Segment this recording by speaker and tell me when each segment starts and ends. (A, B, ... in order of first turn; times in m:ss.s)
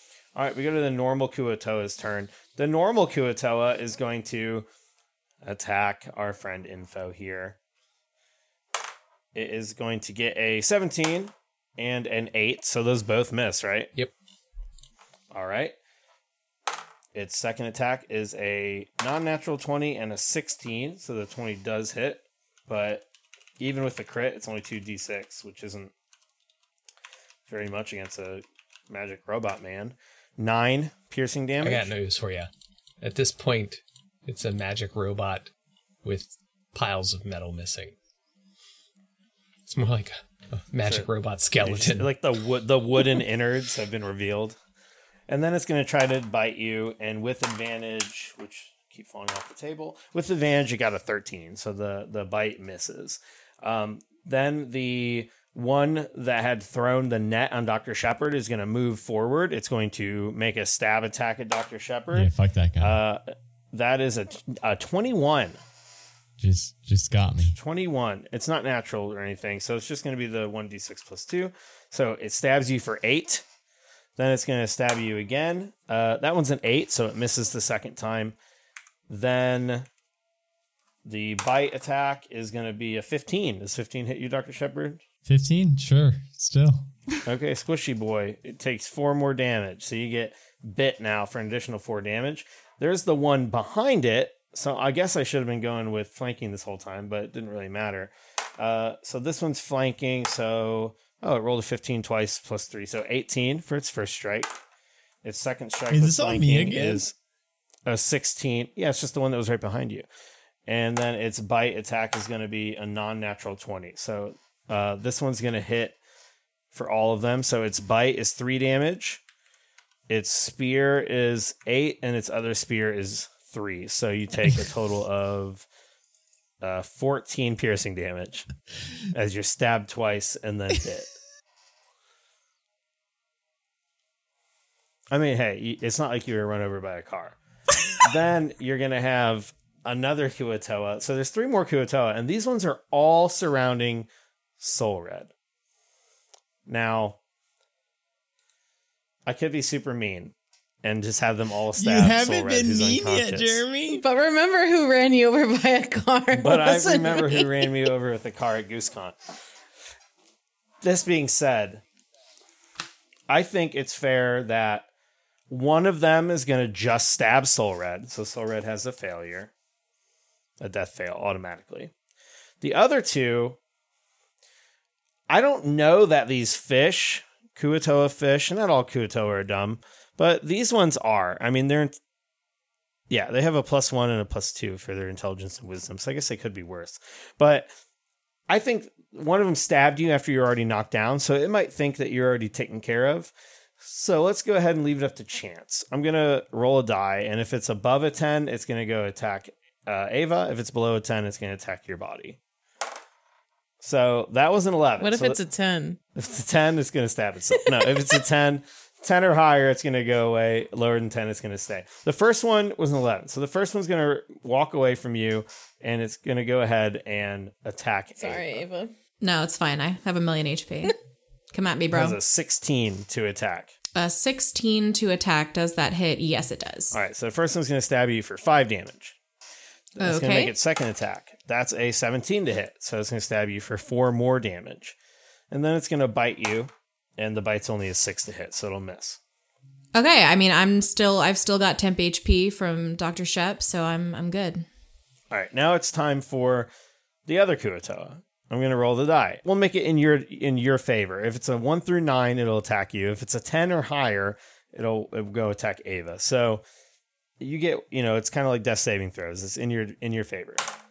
0:00.4-0:04.7 A
0:05.4-0:07.6 A
0:09.3-0:13.9 A
0:15.3-0:15.8 A
0:17.1-0:23.0 A
0:23.6-0:25.9 A
0:27.5-0:31.9 A
0:31.6-0:32.5 B
0:33.0-0:35.5 B
0:36.0-0:38.0 B
0:39.7-0:42.1 B
0:41.6-0:44.6 A
0:45.3-1:05.6 A
1:02.1-1:03.0 C
1:06.4-1:07.6 C
1:07.5-1:13.4 A
1:14.2-1:18.4 A
1:19.1-1:19.9 A
1:21.0-1:25.0 A
1:25.3-1:26.9 C
1:27.2-1:44.5 A
1:45.2-1:47.2 A
1:45.9-1:47.0 C
1:47.9-1:50.1 A
1:50.7-1:56.0 A
1:56.7-1:59.2 A
2:00.1-2:05.7 A
2:06.6-2:08.5 A
2:09.1-2:11.1 A
2:15.1-2:17.4 A
2:18.0-2:24.1 A
2:24.6-2:25.3 A
2:26.7-2:27.2 A
2:29.3-2:33.6 A
2:31.8-2:34.0 C
2:33.9-2:37.7 D
2:36.3-2:39.2 A
2:40.8-2:41.8 A
2:43.3-2:44.9 A
2:45.5-2:49.5 A
2:50.6-2:51.9 A
2:52.6-2:53.6 A
2:55.3-3:02.0 A
3:03.1-3:07.7 A
3:08.5-3:22.4 A
3:23.8-3:25.4 A
3:25.0-3:26.0 D
3:26.2-3:38.7 A
3:38.2-3:38.9 D
3:39.2-3:41.0 E
3:41.5-3:42.2 E
3:41.9-3:43.8 A
3:44.0-3:47.0 E
3:46.9-3:49.2 A
3:50.0-3:55.0 A
3:50.0-3:50.5 E
3:55.5-3:59.2 A
4:00.0-4:04.7 E
4:05.3-4:06.7 A
4:07.3-4:16.6 A
4:17.4-4:20.6 A